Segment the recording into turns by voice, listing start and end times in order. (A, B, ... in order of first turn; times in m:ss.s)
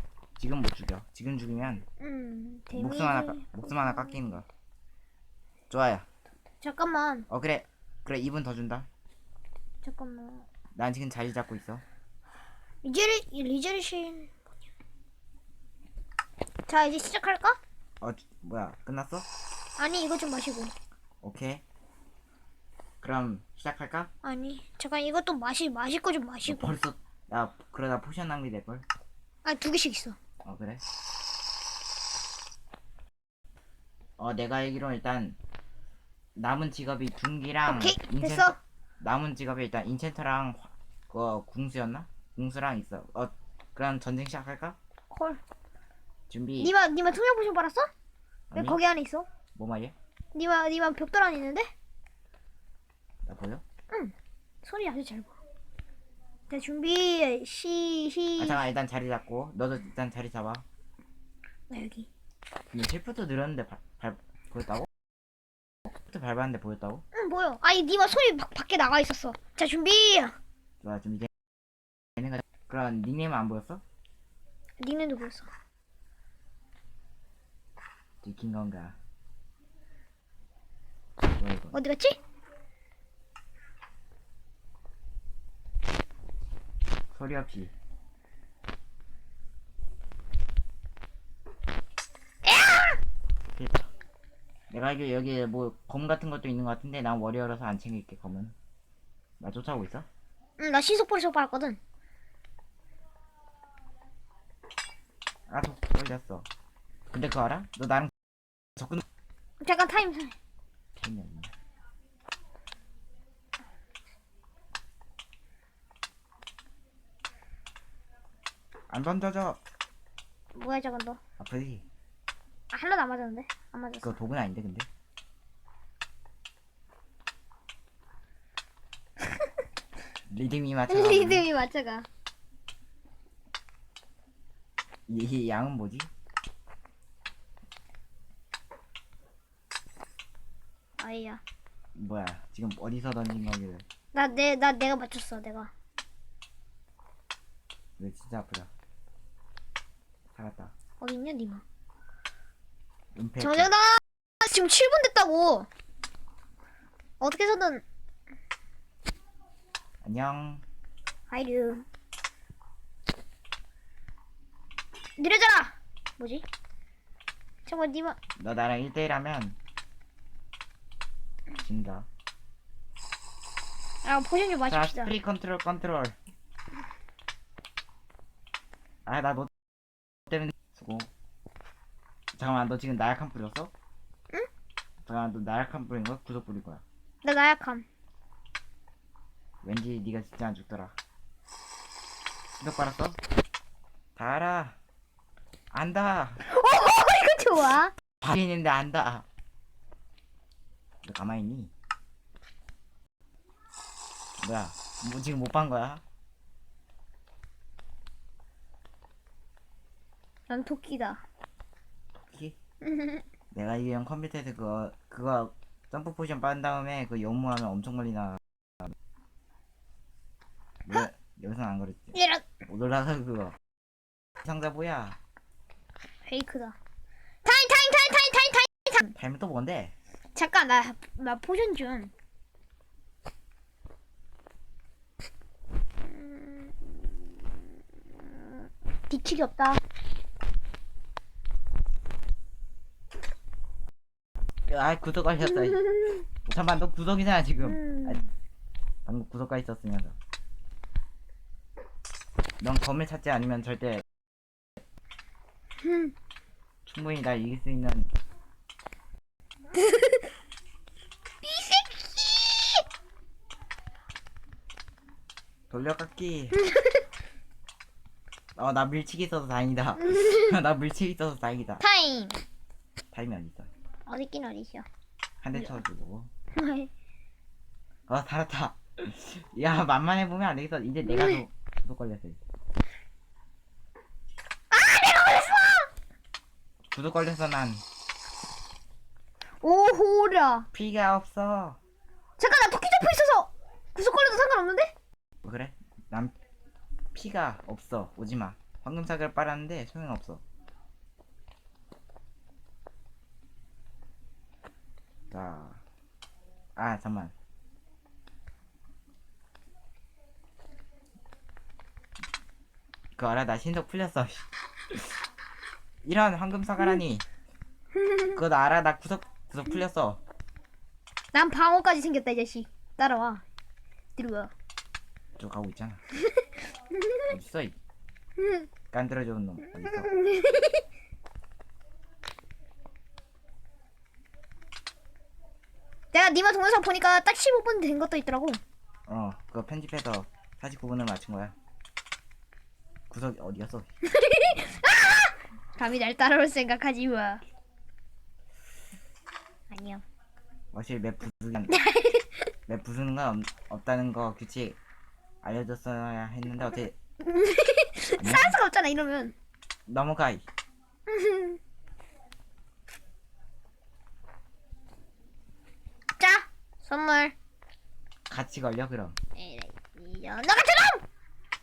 0:00.4-0:01.8 A
0:02.0-0:04.2 B
0:02.7-0:04.4 A
0:05.7-0:06.0 A
0:06.6-0:07.2 B
0:07.3-0:08.9 A
0:09.8-0:10.4 B
0:10.7-0:11.8 A
0:12.8-0:14.3 B
0:16.7-0:17.6 B
0:18.0-0:19.2 A
0:19.8-0:20.7 B
0:21.2-0:21.6 A
0:23.0-0:24.1 A
0:24.2-0:26.8 B
0:26.4-0:28.8 A
0:29.4-0:30.2 B
0:30.4-0:30.8 A
0:34.2-0:35.4 A
0:36.4-0:44.8 A
0:37.6-0:38.6 B
0:45.1-0:45.4 B
0:46.3-0:46.7 A
0:46.6-0:47.9 B
0:48.5-0:48.8 A
0:48.5-0:49.3 B
0:49.5-0:49.9 A
0:50.3-0:51.7 B
0:53.2-0:53.6 A
0:53.9-0:55.4 B
0:56.5-0:58.6 B
0:58.4-1:00.6 A
1:01.7-1:02.1 B
1:02.7-1:04.9 A
1:06.1-1:07.0 A
1:07.1-1:10.4 B
1:10.8-1:11.3 A
1:12.2-1:13.8 A
1:14.8-1:15.5 B
1:18.2-1:19.0 A
1:21.4-1:21.8 A
1:21.7-1:22.2 B
1:27.1-1:27.7 A
1:32.4-1:33.0 B
1:33.5-1:33.9 A
1:34.7-1:38.5 A
1:39.4-1:40.0 A
1:40.6-1:41.8 B
1:45.5-1:46.5 A
1:47.1-1:48.1 A
1:48.8-1:49.0 A
1:49.6-1:50.4 B
1:51.0-1:51.5 A
1:58.9-1:59.6 A
2:00.5-2:01.2 B
2:01.4-2:01.8 A
2:02.7-2:04.2 B
2:04.0-2:04.9 A
2:10.3-2:11.5 A
2:10.9-2:12.1 B
2:15.1-2:16.1 A
2:21.0-2:21.4 B
2:21.9-2:23.8 A
2:24.1-2:25.7 B
2:28.0-2:28.7 A
2:30.3-2:30.7 A
2:31.0-2:31.6 B
2:33.1-2:33.7 A
2:33.4-2:35.7 B
2:37.2-2:37.8 B
2:40.0-2:40.6 A
2:41.3-2:41.8 B
2:45.2-2:46.4 B
2:47.6-2:48.2 B
2:48.4-2:49.6 A
2:51.6-2:52.1 A
2:54.0-2:55.1 B
2:54.7-2:56.2 A
2:59.0-2:59.5 A
3:00.3-3:01.1 A
3:02.4-3:03.7 A
3:05.0-3:06.8 A
3:07.2-3:07.8 B
3:09.6-3:10.9 A
3:12.6-3:13.2 A
3:14.2-3:14.8 A
3:15.7-3:16.4 A
3:16.4-3:17.9 B
3:18.2-3:19.2 A
3:21.0-3:21.7 A
3:24.4-3:26.0 A
3:30.5-3:31.2 B
3:32.2-3:32.6 A
3:32.8-3:33.2 B
3:33.5-3:38.9 A
3:40.9-3:43.6 A
3:42.1-3:42.4 B
3:44.4-3:45.2 A
3:46.2-3:46.8 B
3:47.4-3:49.1 B
3:49.1-3:49.9 A
3:50.3-3:52.1 B
3:56.0-3:57.5 B
3:58.1-3:59.8 B
4:04.6-4:08.2 A
4:07.6-4:08.3 B
4:09.0-4:10.2 A
4:12.6-4:14.0 A
4:15.8-4:16.1 B
4:16.8-4:18.1 A
4:19.8-4:20.1 B
4:21.4-4:22.8 B
4:25.7-4:26.6 A
4:26.6-4:27.0 B
4:28.6-4:31.8 A
4:30.1-4:30.5 B
4:31.8-4:32.4 B
4:33.1-4:33.7 A
4:34.1-4:34.8 B
4:35.4-4:36.3 A
4:36.5-4:36.9 B
4:38.1-4:42.4 A
4:41.1-4:41.4 B
4:44.7-4:45.9 B
4:46.9-4:47.8 A
4:49.6-4:50.7 B
4:50.7-4:51.8 A
4:52.4-4:54.9 B
4:55.4-4:56.3 A
4:57.1-5:00.4 A
5:05.3-5:05.8 A
5:06.8-5:07.3 A
5:13.2-5:15.0 A
5:16.0-5:17.2 A
5:18.0-5:18.3 B
5:18.3-5:20.2 A
5:21.3-5:23.4 B
5:24.2-5:24.5 B
5:25.4-5:26.0 A
5:27.3-5:27.8 A
5:28.4-5:28.6 B
5:28.9-5:30.1 A
5:29.6-5:30.8 B
5:36.1-5:38.6 B
5:39.1-5:41.5 A
5:43.1-5:43.8 A
5:44.0-5:47.4 B
5:49.7-5:50.0 B
5:50.7-5:51.8 A
5:51.7-5:52.4 B
5:52.7-5:54.8 A
5:55.4-5:56.9 A
5:57.2-5:59.3 B
5:58.2-5:58.6 A
5:59.9-6:00.4 A
6:01.1-6:01.6 B
6:06.2-6:07.3 B
6:08.3-6:09.2 A
6:09.4-6:11.0 B